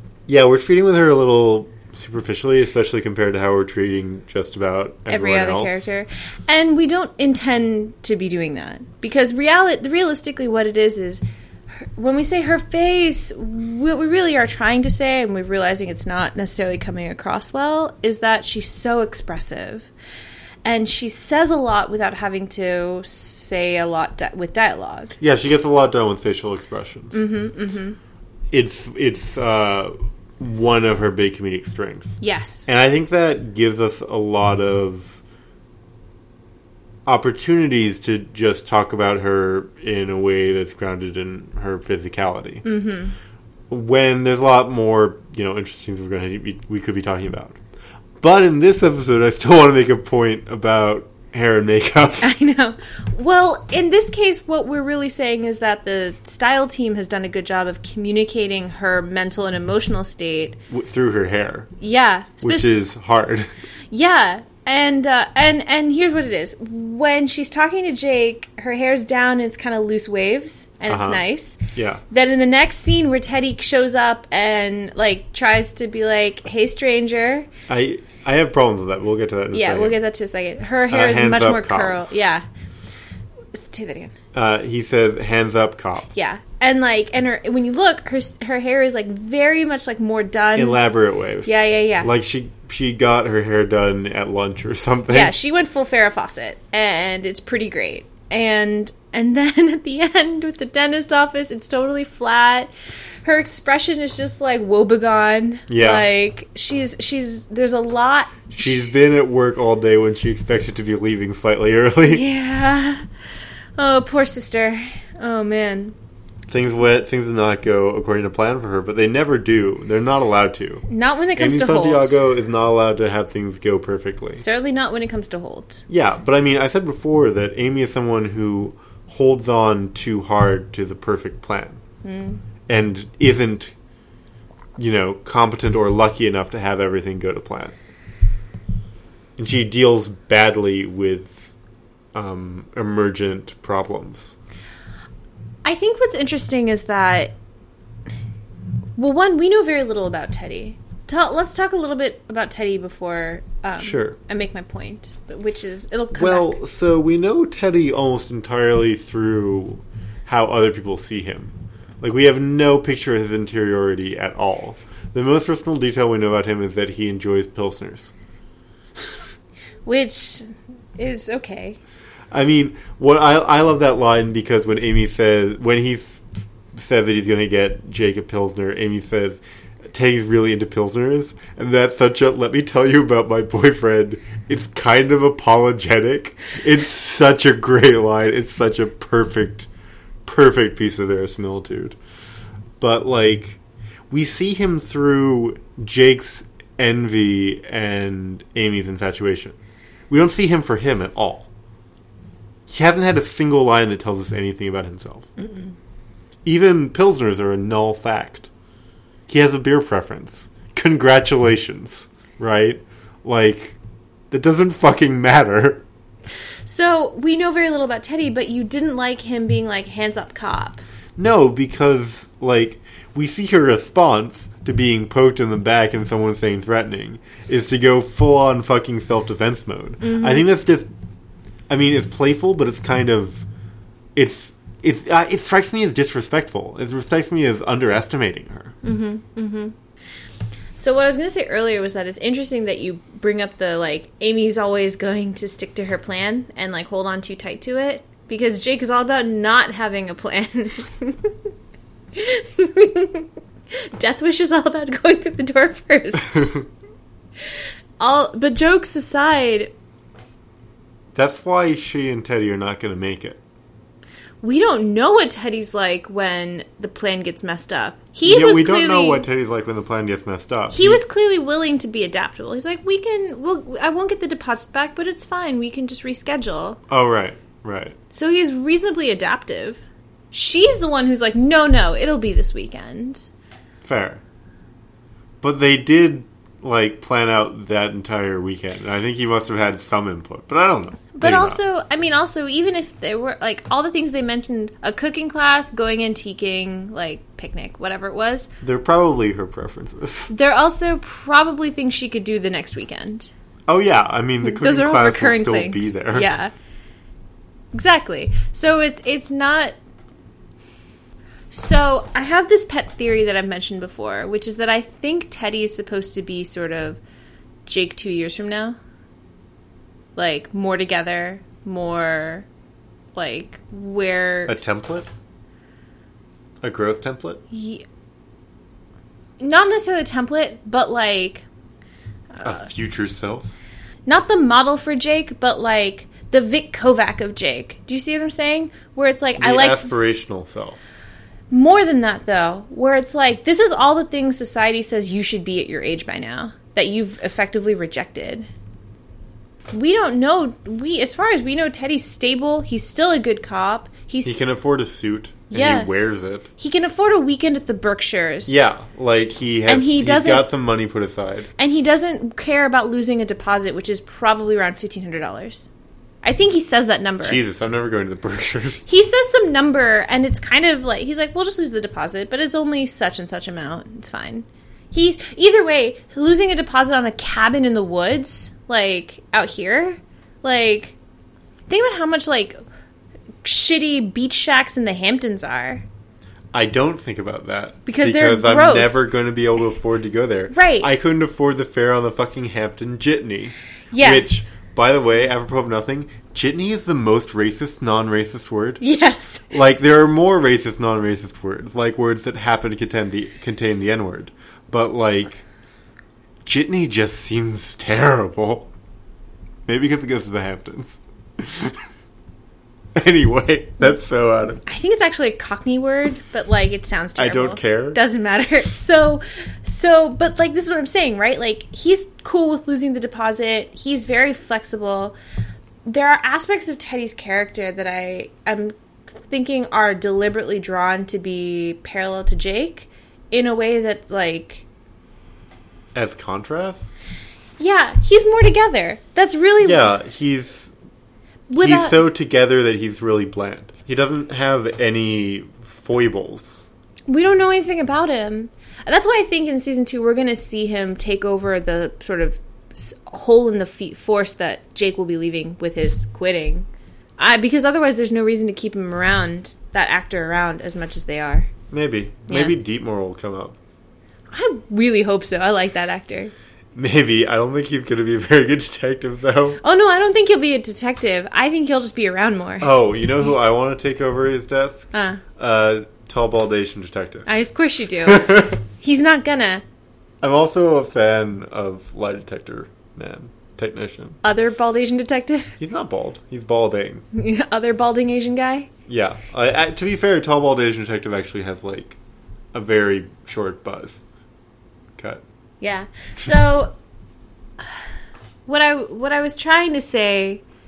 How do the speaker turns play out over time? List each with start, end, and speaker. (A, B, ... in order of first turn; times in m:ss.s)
0:00.3-0:05.8 A
0:05.1-0:11.2 B
0:11.8-0:19.9 B
0:20.6-0:25.2 B
0:25.2-0:27.2 A
0:27.1-0:28.0 B
0:28.5-0:35.2 A
0:32.2-0:32.7 B
0:37.1-0:42.6 A
0:42.6-0:43.1 B
0:43.7-0:47.6 A
0:48.2-0:52.3 A
0:52.2-1:00.6 B
1:00.7-1:01.7 A
1:01.8-1:02.7 B
1:02.4-1:03.5 A
1:03.9-1:17.5 B
1:10.9-1:12.0 A
1:17.7-1:20.0 A
1:19.5-1:22.4 B
1:20.9-1:22.0 A
1:23.5-1:24.1 B
1:24.3-1:26.1 A
1:26.2-1:30.8 B
1:30.6-1:35.3 A
1:31.4-1:32.1 B
1:35.1-1:42.7 B
1:43.2-1:48.9 B
1:45.7-1:46.1 A
1:48.5-1:52.2 A
1:52.1-1:53.0 B
1:53.8-1:56.0 B
1:56.5-2:00.8 A
2:00.9-2:02.2 B
2:01.4-2:04.4 A
2:04.4-2:05.8 B
2:05.9-2:11.8 A
2:12.0-2:12.4 B
2:12.7-2:13.7 A
2:14.8-2:17.8 A
2:19.4-2:21.5 A
2:22.1-2:24.4 A
2:25.6-2:27.4 B
2:29.0-2:36.6 B
2:33.8-2:34.2 A
2:36.1-2:48.1 A
2:49.9-2:51.8 B
2:52.3-3:09.7 A
3:10.2-3:12.0 A
3:12.8-3:13.6 A
3:14.1-3:19.6 A
3:20.1-3:21.5 A
3:22.7-3:25.3 A
3:26.4-3:28.5 A
3:29.3-3:33.8 A
3:34.3-3:35.8 A
3:36.7-3:40.8 B
3:41.2-3:50.9 A
3:50.0-3:50.5 B
3:51.7-3:53.4 A
3:54.2-3:58.8 A
3:58.8-3:59.8 B
4:00.8-4:11.3 B
4:12.2-4:13.3 B
4:14.0-4:16.4 B
4:16.3-4:16.7 A
4:18.0-4:19.7 B
4:21.2-4:23.4 A
4:24.4-4:29.3 B
4:28.2-4:31.0 A
4:30.7-4:36.8 B
4:36.9-4:38.0 A
4:38.1-4:43.3 B
4:43.8-4:44.2 A
4:45.4-4:51.6 A
4:51.2-4:58.5 B
4:58.6-5:00.3 A
5:00.3-5:03.3 B
5:03.7-5:06.3 A
5:04.4-5:06.5 B
5:07.7-5:09.8 B
5:11.5-5:17.0 B
5:17.7-5:18.8 B
5:20.2-5:22.5 B
5:23.2-5:24.6 B
5:24.5-5:25.1 A
5:26.6-5:27.4 A
5:27.5-5:27.8 B
5:29.4-5:31.4 B
5:32.4-5:32.6 B
5:32.4-5:33.5 A
5:34.1-5:39.9 B
5:39.4-5:40.8 A
5:41.5-5:48.5 B
5:49.7-5:54.5 B
5:54.2-5:56.5 A
5:55.5-5:55.9 B
5:56.6-5:58.5 B
5:58.5-6:01.5 A
5:59.7-6:00.5 B
6:01.6-6:05.7 B
6:06.2-6:07.4 B
6:07.2-6:08.9 A
6:08.9-6:21.0 B
6:21.7-6:22.6 B
6:23.4-6:25.8 B
6:26.5-6:38.8 A
6:27.9-6:29.1 B
6:30.5-6:30.9 B
6:33.9-6:34.4 B
6:38.8-6:39.5 B
6:39.5-6:45.4 A
6:46.4-6:48.7 A
6:49.7-6:51.8 A
6:53.0-6:54.6 A
6:54.7-7:05.2 B
6:57.2-6:58.0 A
7:05.8-7:14.6 B
7:16.0-7:16.9 A
7:17.6-7:19.9 B
7:19.6-7:20.7 A
7:21.5-7:22.0 B
7:21.6-7:26.7 A
7:27.1-7:36.7 B
7:37.2-7:41.5 B
7:41.7-7:43.6 A
7:42.3-7:42.5 B
7:44.3-7:46.3 B
7:46.8-7:49.6 A
7:49.6-7:52.7 B
7:52.6-7:57.3 A
7:54.9-7:55.2 B
7:57.3-7:59.6 B
7:58.0-7:58.6 A
8:00.2-8:04.2 A
8:04.2-8:05.6 B
8:05.6-8:07.0 A
8:07.1-8:08.7 B
8:08.9-8:12.0 A
8:12.5-8:14.0 A
8:15.0-8:15.2 A
8:15.6-8:16.7 B
8:18.5-8:20.4 B